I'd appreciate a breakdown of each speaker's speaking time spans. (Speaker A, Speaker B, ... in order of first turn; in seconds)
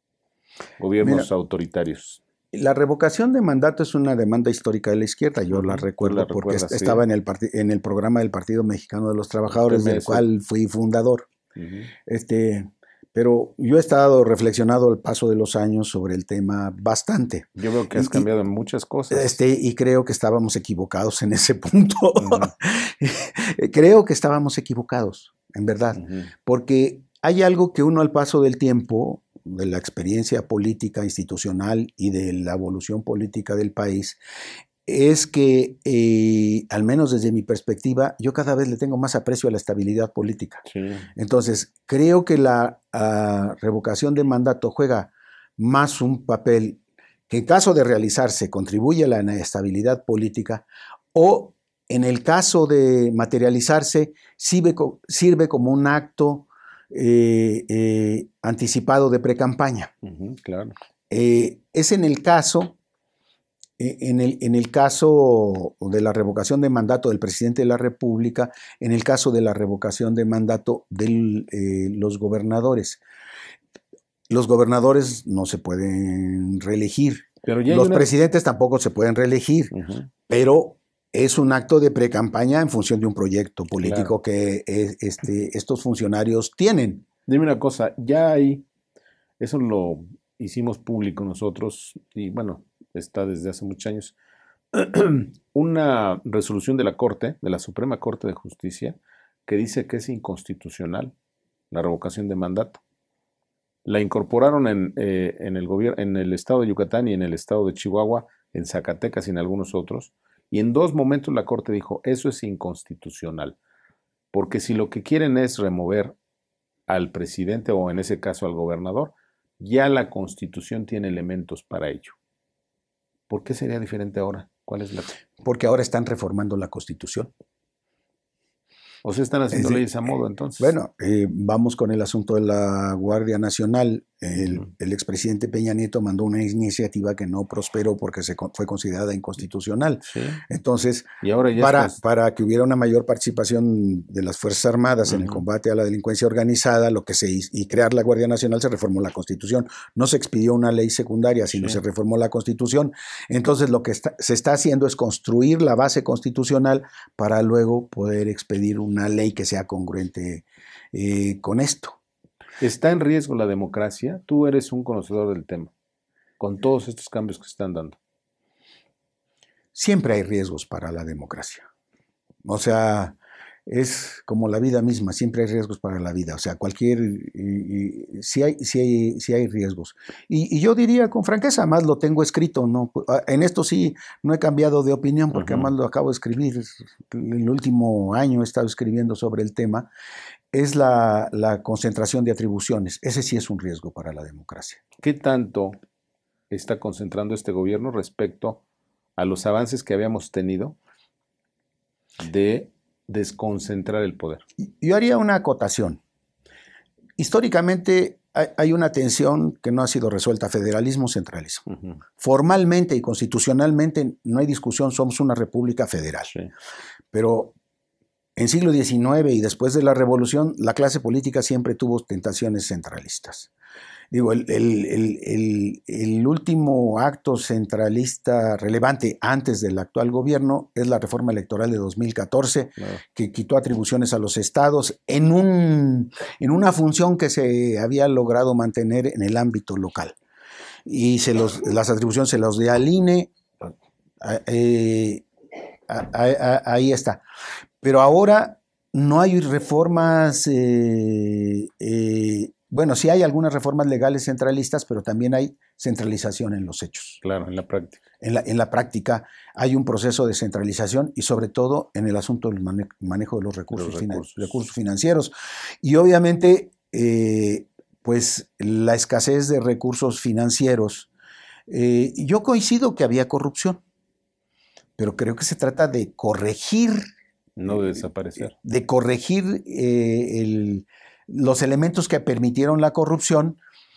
Speaker A: 0.8-2.2, 5.5-7.0, 9.5-10.3, 11.6-11.9, 17.6-19.4, 22.2-22.5, 25.9-26.3, 40.7-41.1, 60.0-60.7, 77.4-78.1, 79.7-80.1, 83.8-84.1, 87.3-88.7, 89.4-94.2, 94.7-101.1, 101.7-102.8, 103.9-113.6, 114.3-116.2, 116.9-122.2, 123.3-125.2, 129.0-130.7, 140.1-140.4, 141.2-142.0, 145.1-145.4, 162.6-165.7, 166.4-168.0, 185.3-185.7, 195.0-195.8, 196.5-198.6, 199.2-200.8, 202.2-204.4, 211.7-212.0, 257.2-258.0, 263.7-264.6, 277.6-278.6
Speaker B: 1.0-1.3, 2.5-11.3, 12.1-18.3, 19.1-34.2, 34.9-40.6, 41.2-59.9, 61.1-62.8, 63.8-73.0, 74.3-79.7, 80.3-87.1, 125.4-127.3, 129.5-129.9, 130.6-162.0, 169.7-171.7, 172.4-173.2, 173.7-189.9, 190.5-194.8, 204.6-206.0, 207.2-211.7, 212.2-216.3, 217.1-217.6, 218.4-223.5, 224.1-240.2, 240.9-243.7, 244.2-245.3, 245.9-247.2, 247.8-257.2, 258.2-271.1, 271.7-273.8, 275.0-277.1, 278.5-283.6